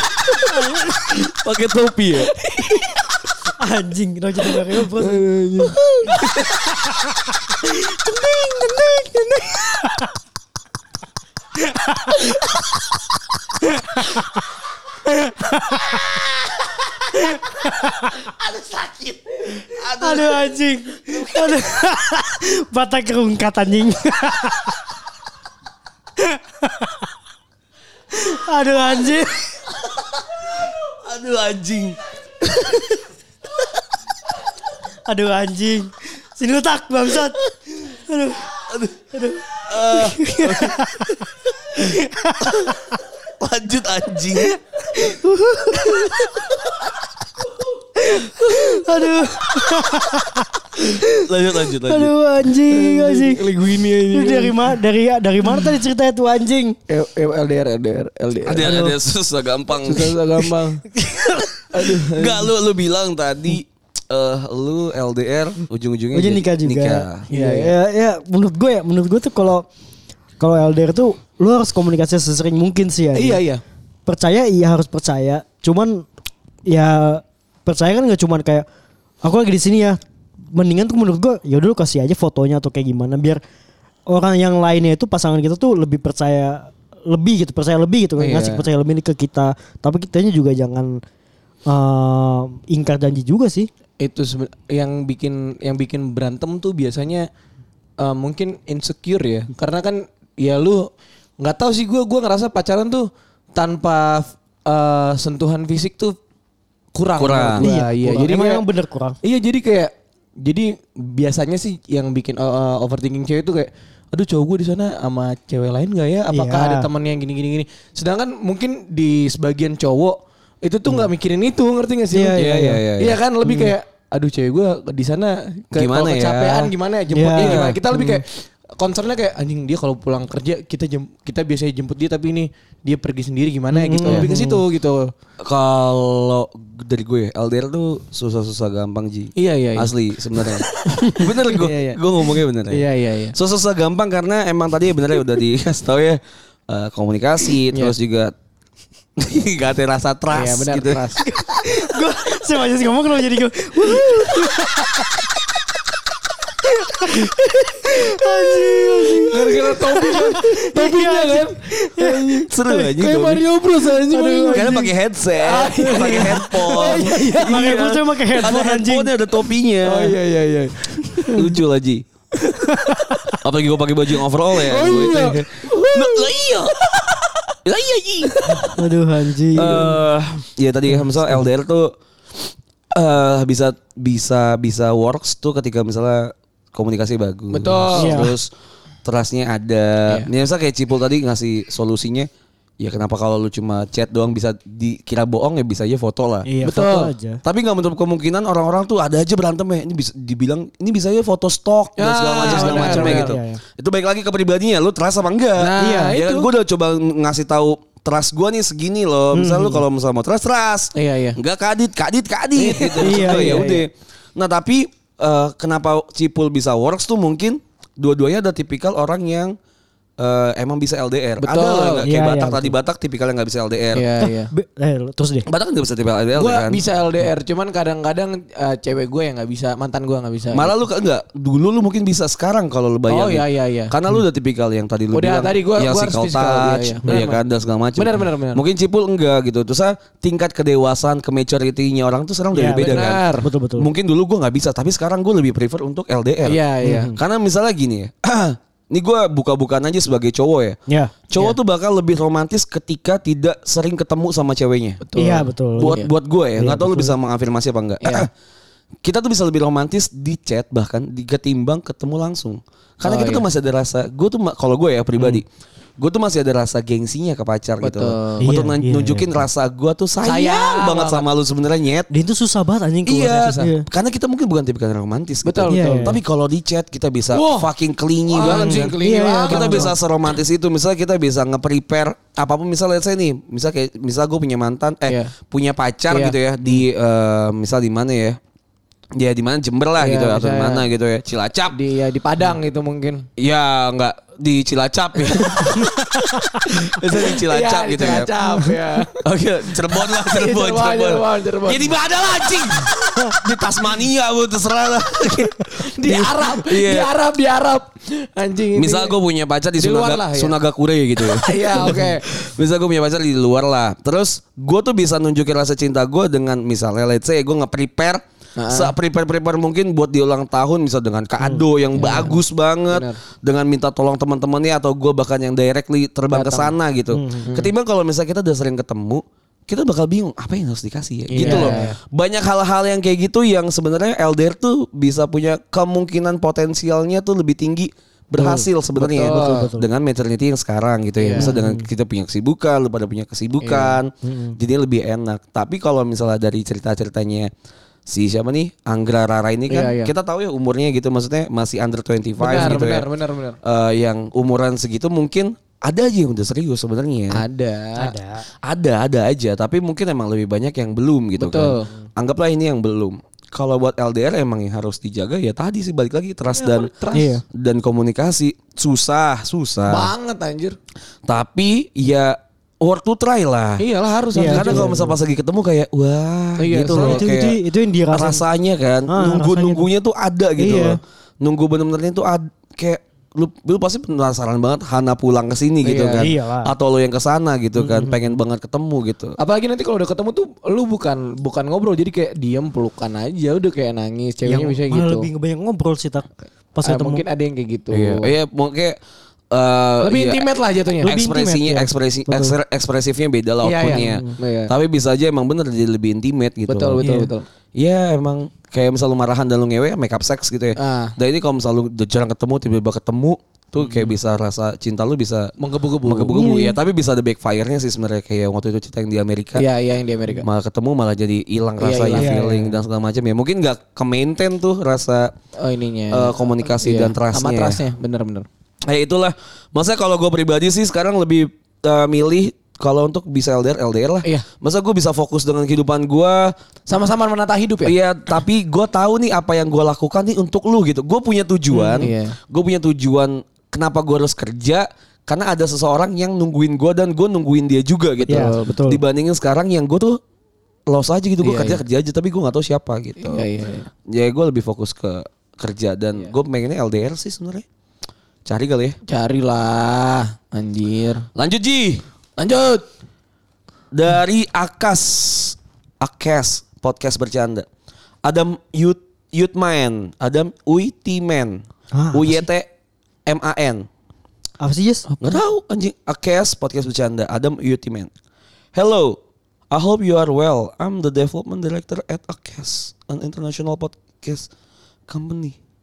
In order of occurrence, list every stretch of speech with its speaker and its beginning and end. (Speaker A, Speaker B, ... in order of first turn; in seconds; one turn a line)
Speaker A: 0.5-1.0
Speaker B: 1.0-2.4
Speaker A: 3.6-5.2
Speaker C: 5.0-5.8
Speaker A: 7.6-10.1
Speaker A: 11.8-12.2
Speaker A: 13.6-14.2
Speaker A: 15.1-16.0
Speaker A: 17.3-18.1
Speaker B: 18.4-20.5
Speaker A: 19.9-24.8
Speaker B: 21.1-21.6
Speaker A: 26.2-26.9
Speaker A: 28.1-29.6
Speaker B: 30.9-32.0
Speaker A: 35.1-38.5
Speaker B: 38.5-40.9
Speaker A: 39.1-42.9
Speaker B: 42.5-42.7
Speaker B: 43.4-44.5
Speaker A: 44.4-46.4
Speaker A: 48.0-51.2
Speaker B: 48.4-48.8
Speaker B: 51.1-52.1
Speaker A: 51.8-53.4
Speaker C: 52.7-54.7
Speaker A: 54.1-56.8
Speaker C: 56.9-58.7
Speaker B: 58.4-60.2
Speaker A: 58.6-58.9
Speaker C: 59.8-60.8
Speaker A: 61.0-61.5
Speaker C: 61.7-62.5
Speaker B: 61.8-67.2
Speaker A: 66.1-69.7
Speaker C: 67.3-67.7
Speaker A: 70.4-73.4
Speaker C: 73.1-73.6
Speaker A: 74.0-76.0
Speaker A: 76.7-78.7
Speaker A: 79.2-80.0
Speaker A: 80.5-83.4
Speaker A: 84.1-91.0
Speaker C: 88.2-88.6
Speaker A: 91.7-93.7
Speaker C: 94.0-97.3
Speaker C: 98.0-100.9
Speaker C: 101.4-106.1
Speaker C: 106.9-108.6
Speaker B: 107.2-107.6
Speaker A: 107.6-109.2
Speaker C: 109.2-135.1
Speaker A: 116.3-116.9
Speaker A: 122.1-122.8
Speaker B: 122.3-123.2
Speaker A: 123.4-123.7
Speaker B: 125.7-126.7
Speaker A: 127.1-128.2
Speaker B: 127.3-127.8
Speaker A: 133.7-134.6
Speaker B: 135.4-148.3
Speaker C: 139.4-142.0
Speaker C: 142.7-143.3
Speaker C: 147.7-147.9
Speaker B: 149.2-151.0
Speaker C: 150.3-151.2
Speaker A: 151.2-155.3
Speaker A: 156.6-162.3
Speaker C: 159.2-167.6
Speaker B: 162.5-163.4
Speaker A: 164.0-164.9
Speaker B: 164.5-170.2
Speaker A: 165.8-169.1
Speaker C: 169.8-171.5
Speaker B: 171.3-172.1
Speaker A: 172.6-173.4
Speaker B: 173.4-176.8
Speaker C: 174.6-177.3
Speaker B: 177.6-178.6
Speaker C: 178.2-178.7
Speaker A: 178.7-180.0
Speaker B: 179.5-181.9
Speaker B: 182.9-188.5
Speaker C: 187.5-188.2
Speaker A: 187.9-188.3
Speaker B: 189.0-192.3
Speaker B: 192.8-196.5
Speaker A: 196.4-197.4
Speaker C: 196.6-197.1
Speaker B: 197.4-219.6
Speaker C: 202.0-203.4
Speaker A: 202.4-203.6
Speaker C: 205.6-206.5
Speaker A: 205.8-206.2
Speaker A: 209.3-209.8
Speaker C: 210.9-211.4
Speaker C: 212.6-213.9
Speaker A: 213.0-213.7
Speaker B: 220.2-224.1
Speaker C: 221.4-222.1
Speaker A: 222.0-222.7
Speaker C: 223.9-224.5
Speaker A: 224.2-225.4
Speaker B: 225.4-226.8
Speaker C: 226.3-230.7
Speaker B: 230.5-246.6
Speaker C: 233.1-233.9
Speaker C: 235.1-237.4
Speaker C: 237.9-238.6
Speaker A: 242.5-243.9
Speaker C: 242.7-243.5
Speaker C: 246.4-247.1
Speaker A: 246.8-247.2
Speaker B: 247.1-250.8
Speaker A: 250.9-251.1
Speaker B: 251.3-255.0
Speaker C: 255.0-256.1
Speaker A: 255.2-256.0
Speaker B: 255.8-258.3
Speaker A: 256.6-257.1
Speaker C: 258.0-258.3
Speaker B: 259.0-265.4
Speaker C: 263.0-263.4
Speaker B: 266.0-272.1
Speaker C: 267.8-268.5
Speaker A: 268.4-269.4
Speaker C: 270.2-271.3
Speaker A: 272.1-273.9
Speaker B: 273.0-288.4
Speaker C: 275.4-276.1
Speaker A: 275.7-276.2
Speaker C: 277.3-277.7
Speaker C: 278.3-279.9
Speaker A: 278.4-279.9
Speaker C: 285.1-285.3
Speaker C: 286.1-286.4
Speaker B: 289.1-291.8
Speaker C: 290.0-290.9
Speaker C: 291.7-293.3
Speaker B: 293.4-298.3
Speaker C: 295.3-295.7
Speaker A: 296.2-296.5
Speaker C: 296.9-299.2
Speaker B: 299.1-307.1
Speaker C: 300.0-302.6
Speaker C: 305.8-309.1
Speaker B: 308.7-347.5
Speaker C: 309.8-310.6
Speaker C: 311.2-312.3
Speaker C: 318.6-318.9
Speaker A: 321.4-322.3
Speaker C: 322.0-322.4
Speaker C: 322.9-323.2
Speaker C: 326.3-326.7
Speaker A: 327.1-327.5
Speaker C: 327.4-327.7
Speaker C: 331.3-331.9
Speaker A: 331.4-331.9
Speaker C: 338.4-339.7
Speaker A: 339.3-339.9
Speaker C: 341.2-341.5
Speaker A: 341.4-341.9
Speaker C: 343.6-344.0
Speaker A: 344.2-344.6
Speaker B: 348.1-353.1
Speaker C: 349.7-350.1
Speaker C: 352.4-353.6
Speaker B: 353.6-357.4
Speaker C: 357.3-358.1
Speaker A: 358.0-358.4
Speaker B: 358.6-366.9
Speaker C: 361.4-361.9
Speaker C: 366.5-367.3
Speaker A: 367.1-367.4
Speaker B: 367.5-370.1
Speaker C: 369.9-370.8
Speaker B: 371.2-373.8
Speaker C: 373.8-375.0
Speaker A: 374.3-375.1
Speaker B: 374.4-377.6
Speaker C: 376.6-377.2
Speaker A: 376.8-378.4
Speaker B: 378.1-389.4
Speaker A: 379.1-379.9
Speaker A: 380.6-381.0
Speaker C: 385.8-386.3
Speaker A: 386.2-386.7
Speaker A: 387.8-388.3
Speaker C: 389.4-395.3
Speaker A: 394.4-397.2
Speaker C: 396.8-398.3
Speaker B: 397.9-399.0
Speaker B: 399.5-400.5
Speaker C: 400.0-401.1
Speaker A: 401.0-402.5
Speaker B: 401.0-407.1
Speaker C: 403.6-404.7
Speaker A: 404.1-404.4
Speaker C: 406.7-407.4
Speaker A: 407.0-407.3
Speaker B: 407.8-415.5
Speaker C: 410.8-411.1
Speaker C: 413.8-414.1
Speaker C: 415.6-416.4
Speaker B: 416.0-419.7
Speaker A: 416.3-416.8
Speaker C: 419.6-420.5
Speaker B: 420.4-425.3
Speaker C: 421.8-422.6
Speaker A: 422.1-422.7
Speaker C: 425.6-428.4
Speaker B: 426.1-427.8
Speaker B: 428.9-436.5
Speaker C: 436.9-437.9
Speaker B: 437.8-450.2
Speaker C: 441.8-442.4
Speaker C: 448.2-448.8
Speaker A: 448.3-449.0
Speaker B: 450.9-453.4
Speaker C: 451.4-451.8
Speaker C: 453.2-453.9
Speaker B: 454.1-457.6
Speaker B: 458.4-459.0
Speaker C: 459.1-461.2
Speaker B: 461.3-462.0
Speaker C: 462.4-462.8
Speaker B: 463.9-467.7
Speaker B: 468.2-472.7
Speaker A: 471.9-472.4
Speaker B: 473.2-473.9
Speaker A: 474.6-475.1
Speaker C: 475.1-475.4
Speaker B: 475.2-478.1
Speaker B: 478.7-479.2
Speaker B: 479.7-484.5
Speaker B: 485.1-485.6